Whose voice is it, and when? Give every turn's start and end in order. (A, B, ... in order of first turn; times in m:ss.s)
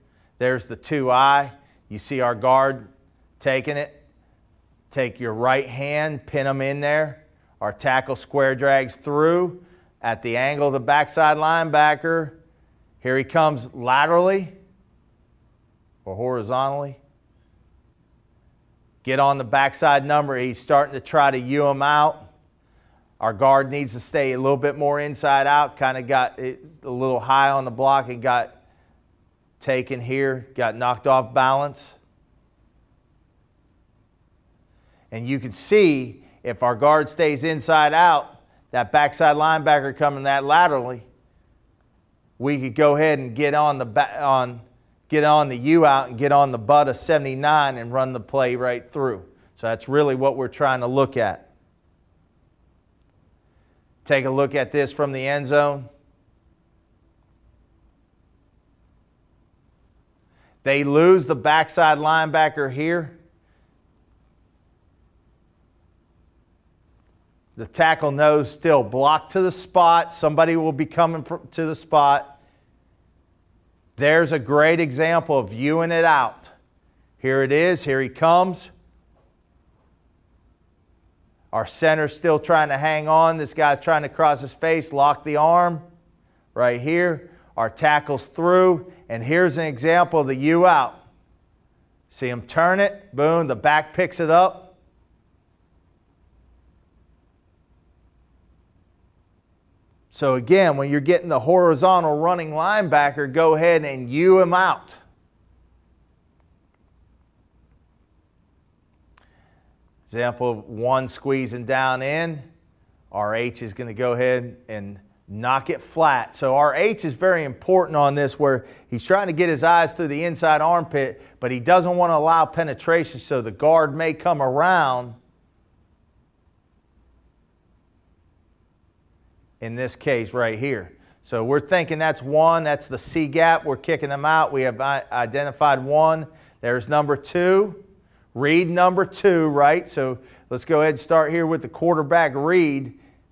0:00.4-0:02.9 A
0:03.4-0:04.0 A
0:04.9-0:12.4 A
0:13.0-0:14.5 A
0:16.0-0:17.0 A
0:19.0-0:22.3 A
0:23.2-0:28.5 A
0:29.6-0:32.0 A
0:35.1-0:41.0 A
0:42.4-0:51.5 A
0:54.0-0:55.9 A
1:00.6-1:03.2 A
1:07.6-1:12.4 A
1:14.0-1:16.6 A
1:17.2-1:18.7 A
1:21.5-1:25.8 A
1:26.5-1:31.0 A
1:32.1-1:34.8 A
1:40.1-1:45.0 A
1:50.1-1:52.4 A
1:53.1-2:05.2 A
2:09.6-2:17.8 A
2:18.3-2:23.0 A